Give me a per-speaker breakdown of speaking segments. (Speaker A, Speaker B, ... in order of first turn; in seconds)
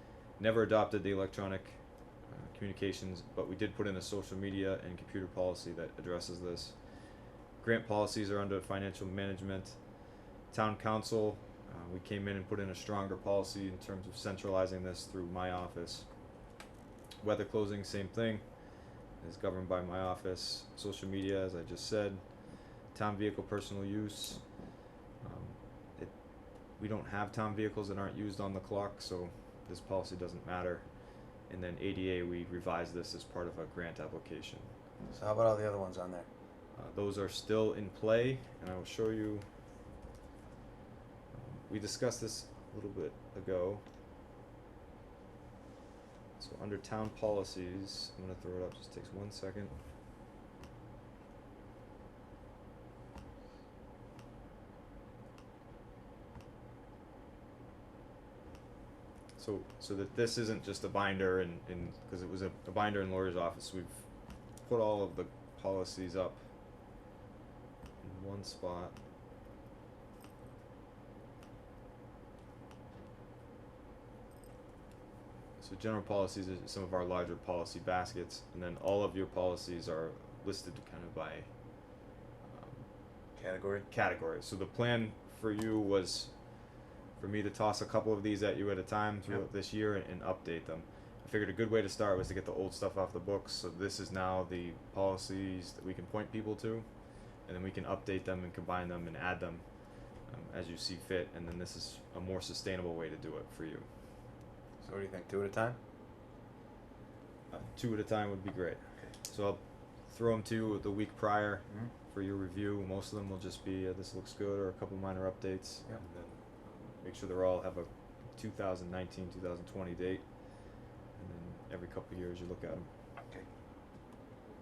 Speaker A: 0.4-6.8, 7.6-9.8, 10.5-16.1, 17.2-18.4, 19.2-22.2, 22.9-24.4, 25.2-26.1, 26.8-30.9, 31.5-34.7, 36.8-39.5, 41.3-43.8, 46.4-49.7, 59.4-64.0, 64.6-66.4, 68.0-69.0, 75.6-81.5, 82.5-82.9, 83.9-86.3, 87.2-96.9, 97.5-99.6, 100.3-103.9, 107.5-120.2, 121.2-122.9
Speaker B: 35.1-36.3, 83.4-83.9, 104.8-105.8